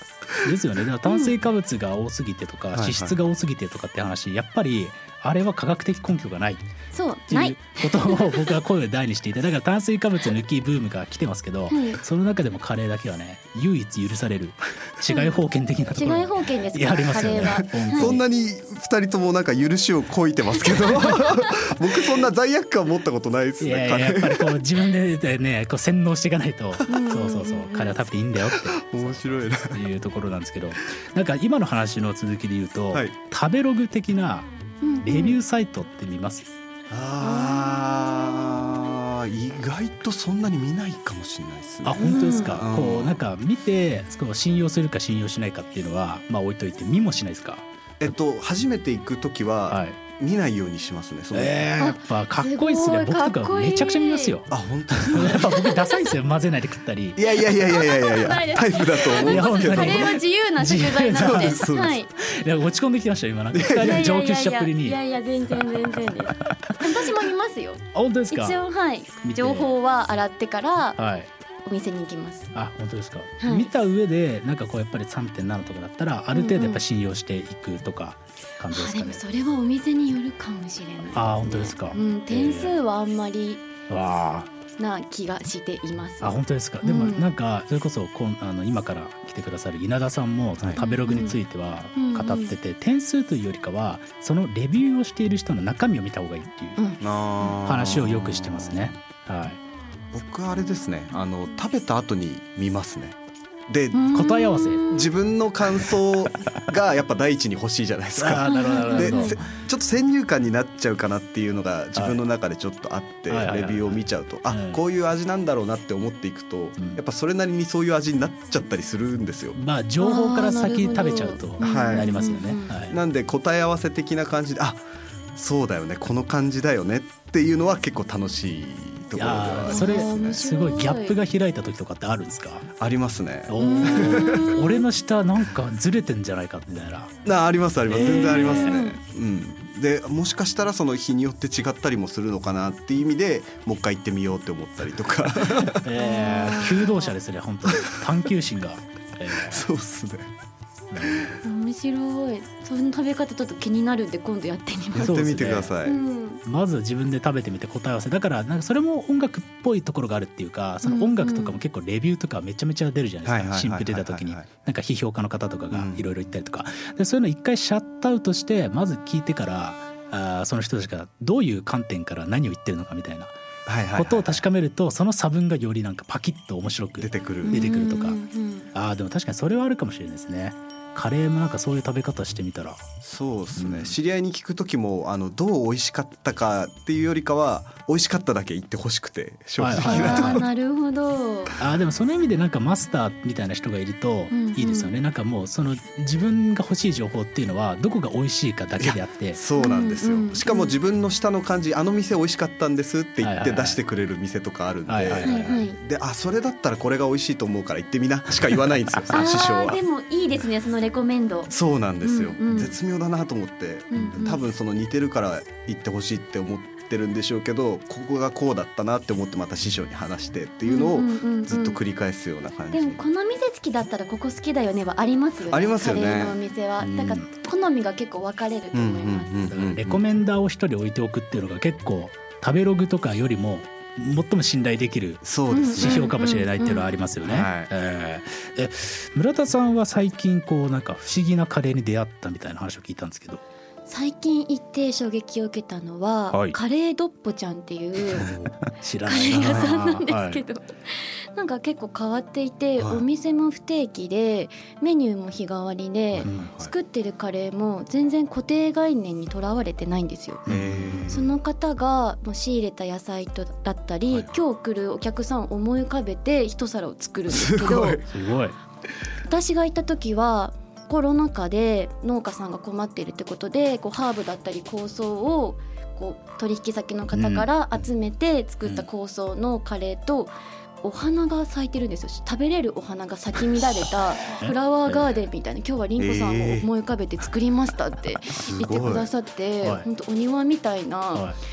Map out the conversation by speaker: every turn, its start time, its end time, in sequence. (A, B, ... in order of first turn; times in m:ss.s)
0:00.4-0:06.6 A
0:01.1-0:01.4 B
0:02.7-0:03.2 C
0:06.9-0:08.6 B
0:07.3-0:18.2 A
0:11.7-0:12.0 B
0:15.1-0:15.4 B
0:15.9-0:18.2 B
0:17.7-0:24.6 C
0:20.9-0:21.5 B
0:23.6-0:36.5 A
0:26.9-0:28.0 B
0:28.4-0:29.8 C
0:34.8-0:35.4 B
0:36.9-0:43.2 C
0:37.2-0:37.8 B
0:41.8-0:48.1 A
0:42.0-0:42.6 B
0:48.0-0:51.7 C
0:49.7-0:50.0 A
0:51.3-0:57.2 A
0:51.8-0:54.4 B
0:54.5-0:55.5 C
0:55.0-0:56.0 B
0:57.2-1:00.2 C
0:57.3-1:02.1 B
0:59.0-1:05.0 A
1:01.1-1:02.0 C
1:03.5-1:04.1 C
1:03.8-1:11.0 B
1:06.4-1:06.7 A
1:07.9-1:08.6 A
1:09.2-1:09.7 A
1:11.0-1:11.3 A
1:11.6-1:12.5 B
1:12.5-1:19.2 A
1:13.4-1:13.7 B
1:16.3-1:16.8 B
1:18.7-1:23.7 B
1:21.1-1:22.8 A
1:23.9-1:24.5 A
1:24.8-1:27.3 B
1:26.2-1:36.8 A
1:30.8-1:31.4 B
1:31.9-1:32.6 B
1:36.8-1:37.5 B
1:37.0-1:38.9 C
1:37.6-1:39.6 A
1:40.1-1:43.2 C
1:43.7-1:44.2 C
1:43.9-1:45.1 B
1:44.1-1:44.9 A
1:44.9-1:59.6 C
1:48.1-1:49.4 A
1:48.4-1:49.4 B
1:51.9-1:52.2 A
1:53.3-1:54.8 A
1:59.5-2:03.0 A
2:00.0-2:02.8 B
2:01.6-2:10.4 C
2:09.1-2:12.7 A
2:09.6-2:11.2 B
2:12.8-2:14.6 C
2:13.5-2:17.1 A
2:13.6-2:14.8 B
2:17.2-2:25.8 C
2:17.9-2:18.8 A
2:18.0-2:19.0 B
2:25.5-2:29.7 A
2:26.0-2:27.1 B
2:27.6-2:28.0 C
2:29.3-2:30.3 C
2:30.9-2:31.4 A
2:31.4-2:35.3 B
2:34.9-2:36.0 C
2:35.0-2:35.7 A
2:35.8-2:36.4 B
2:36.4-2:53.4 A
2:40.8-2:41.6 B
2:43.2-2:44.5 C
2:45.7-2:46.1 C
2:53.6-2:54.4 C
2:54.0-2:58.2 A
2:57.0-2:57.7 C
2:57.4-2:58.7 B
2:58.7-3:02.9 A
3:03.0-3:10.5 C
3:03.6-3:04.0 A
3:09.6-3:10.5 A
3:09.7-3:11.5 B
3:11.6-3:19.4 A
3:14.3-3:15.0 B
3:18.8-3:29.8 C
3:19.6-3:20.8 B
3:23.2-3:23.8 A
3:24.9-3:25.6 A
3:25.2-3:25.8 B
3:29.1-3:31.5 B
3:31.5-3:43.0 C
3:32.0-3:32.8 B
3:33.9-3:34.4 B
3:40.6-3:41.8 B
3:42.7-3:49.4 B
3:45.5-3:46.4 C
3:46.8-3:47.3 A
3:48.7-3:50.0 C
3:49.5-4:03.4 A
3:55.2-3:56.1 C
3:55.5-3:57.0 B
3:57.2-3:57.7 C
4:03.9-4:08.3 B
4:06.3-4:06.6 A
4:08.2-4:08.5 C
4:08.2-4:10.4 A
4:09.0-4:20.5 B
4:09.3-4:09.7 C
4:12.8-4:13.0 C
4:16.1-4:16.7 C
4:16.2-4:16.5 A
4:20.5-4:21.2 A
4:20.5-4:21.3 C
4:21.1-4:28.1 B
4:24.1-4:24.4 C
4:27.3-4:28.1 C
4:28.1-4:28.6 A
4:29.3-4:51.3 B
4:37.1-4:37.5 A
4:46.0-4:46.7 C
4:48.4-4:49.1 C
4:51.1-4:51.4 A